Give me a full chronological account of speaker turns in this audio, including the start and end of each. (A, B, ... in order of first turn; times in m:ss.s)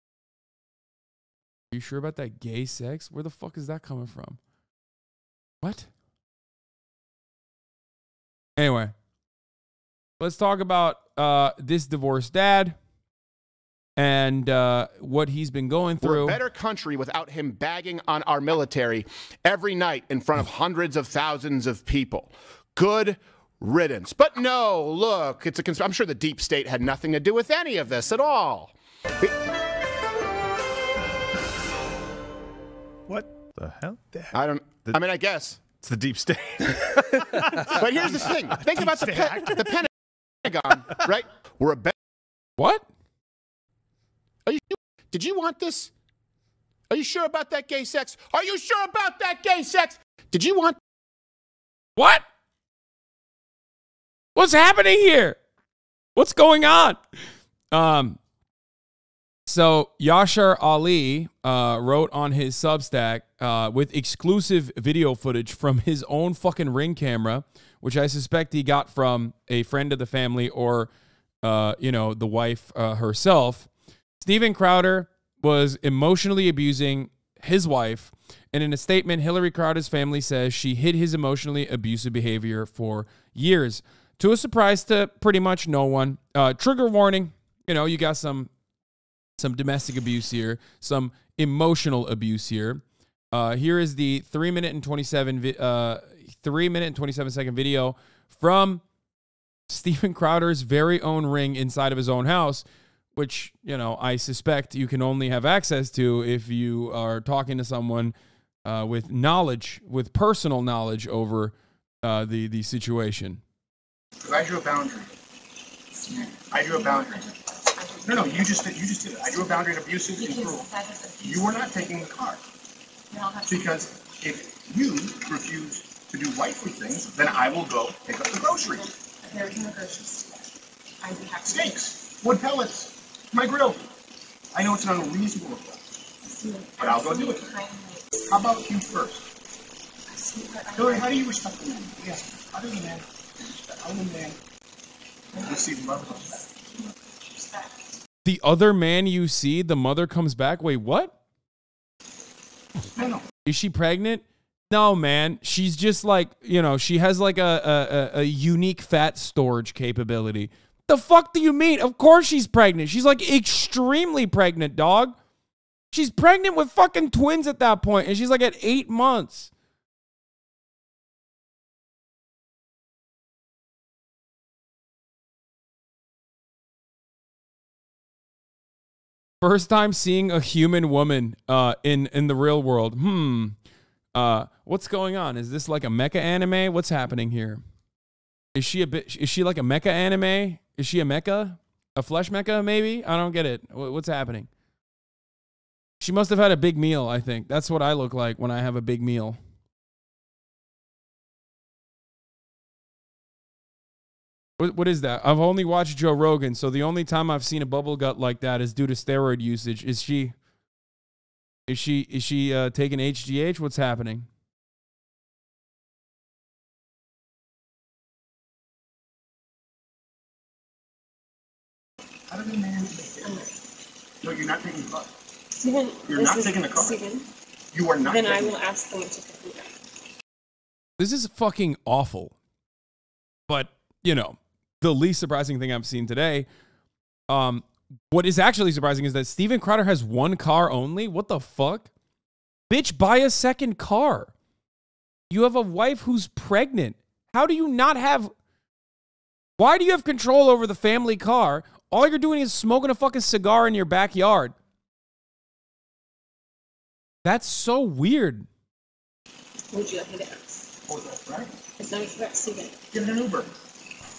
0:01.7-0:04.4 A
0:05.6-0:05.9 A
0:08.6-0:08.9 A
0:10.2-0:12.8 A
0:14.0-0:16.4 A
0:16.0-0:29.4 B
0:33.1-0:34.3 C
0:34.3-0:35.9 B
0:35.8-0:38.1 C
0:37.2-0:39.9 B
0:38.7-0:39.6 C
0:40.4-0:41.9 B
0:42.6-0:42.9 A
0:44.4-0:45.9 B
0:46.9-0:50.8 B
0:52.0-0:52.3 A
0:54.4-0:55.4 A
0:56.2-0:57.0 A
0:57.7-0:58.2 A
0:59.5-1:10.9 A
1:11.4-1:13.7 A
1:14.2-1:28.5 A
1:29.4-1:38.8 A
1:39.7-1:48.1 A
1:48.6-1:53.4 A
1:54.2-1:55.1 D
1:56.0-1:58.8 E
1:56.3-1:57.3 D
1:58.0-2:00.7 D
2:00.2-2:01.9 E
2:01.2-2:02.4 D
2:03.1-2:03.9 E
2:03.5-2:08.9 D
2:09.1-2:10.5 E
2:11.0-2:11.8 E
2:11.4-2:13.8 D
2:14.5-2:15.8 D
2:16.3-2:18.3 E
2:16.8-2:17.5 D
2:18.3-2:19.3 D
2:20.1-2:21.2 E
2:20.7-2:24.4 D
2:25.3-2:26.4 D
2:26.3-2:27.8 E
2:28.2-2:31.2 A
2:33.0-2:33.2 D
2:33.5-2:45.2 A
2:45.9-2:49.5 A
2:59.4-3:03.6 A
3:04.1-3:07.6 A
3:08.6-3:14.5 A
3:16.0-3:19.4 A
3:24.6-3:30.4 A
3:31.7-3:34.3 A
3:42.3-3:43.4 D
3:43.2-3:43.6 E
3:44.2-3:45.1 D
3:45.5-3:47.3 E
3:46.1-3:47.0 D
3:47.7-3:48.6 D
3:48.0-3:49.8 E
3:51.0-3:52.4 A
3:53.5-3:56.5 A
3:57.3-4:01.9 A
4:02.7-4:04.3 A
4:05.3-4:08.3 A
4:09.6-4:14.6 A
4:17.2-4:18.5 A
4:19.7-4:20.7 E
4:20.9-4:21.5 D
4:21.8-4:22.8 E
4:22.9-4:23.5 D